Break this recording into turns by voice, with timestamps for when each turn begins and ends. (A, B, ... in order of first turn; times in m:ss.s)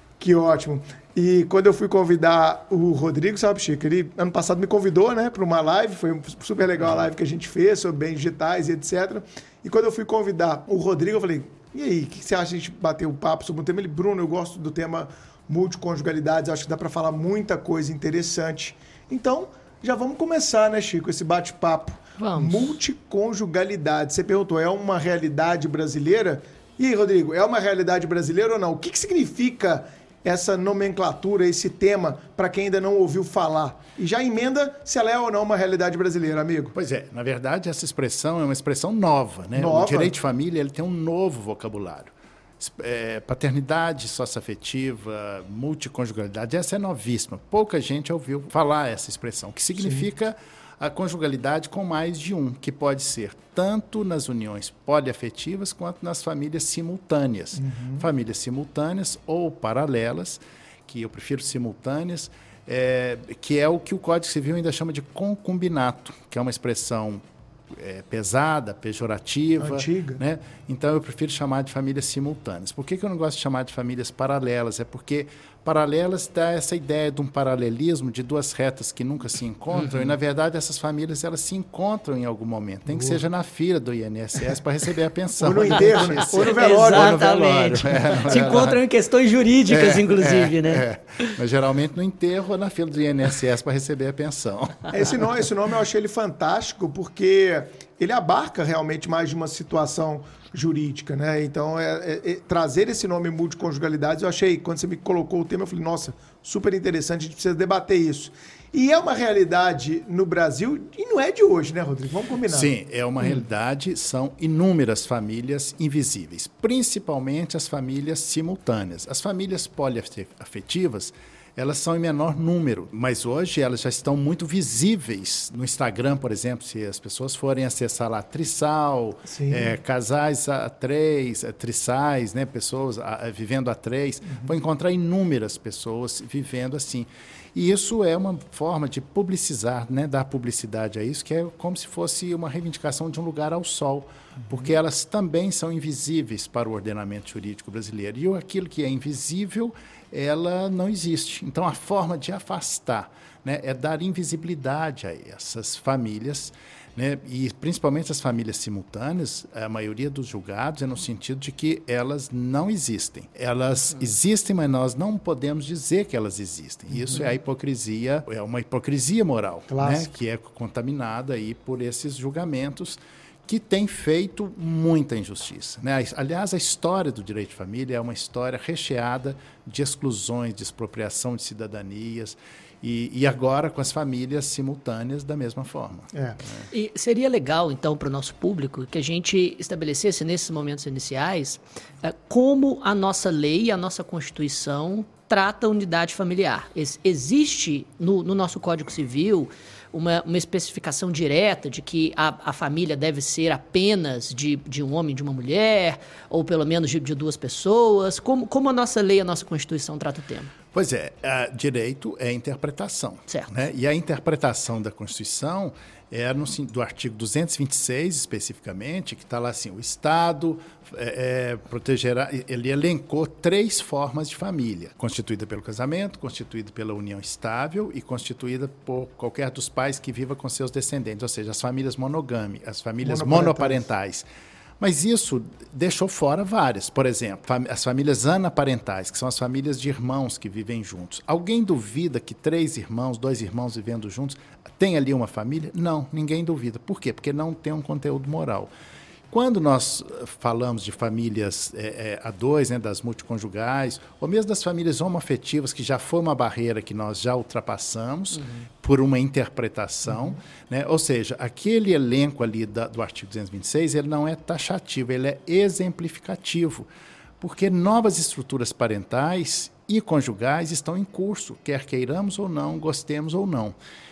0:00.2-0:36.8 A
0:22.2-0:22.8 B
0:36.8-1:28.8 C
0:39.6-0:40.1 A
0:49.8-0:50.1 A
0:57.6-0:58.1 A
1:09.6-1:10.2 A
1:19.7-1:20.2 B
1:22.9-1:23.2 A
1:25.4-1:27.2 A
1:26.2-1:31.4 B
1:29.7-1:35.3 C
1:34.9-1:52.7 A
1:52.5-3:06.6 C
2:09.3-2:09.8 A
2:46.9-2:47.2 A
2:49.7-2:50.1 A
3:06.1-3:06.4 A
3:06.7-3:30.5 B
3:30.7-3:54.2 C
3:33.3-3:33.5 B
3:53.0-3:53.9 A
3:54.8-4:08.7 C
4:09.3-4:26.9 C
4:18.4-4:18.6 B
4:27.4-4:33.8 C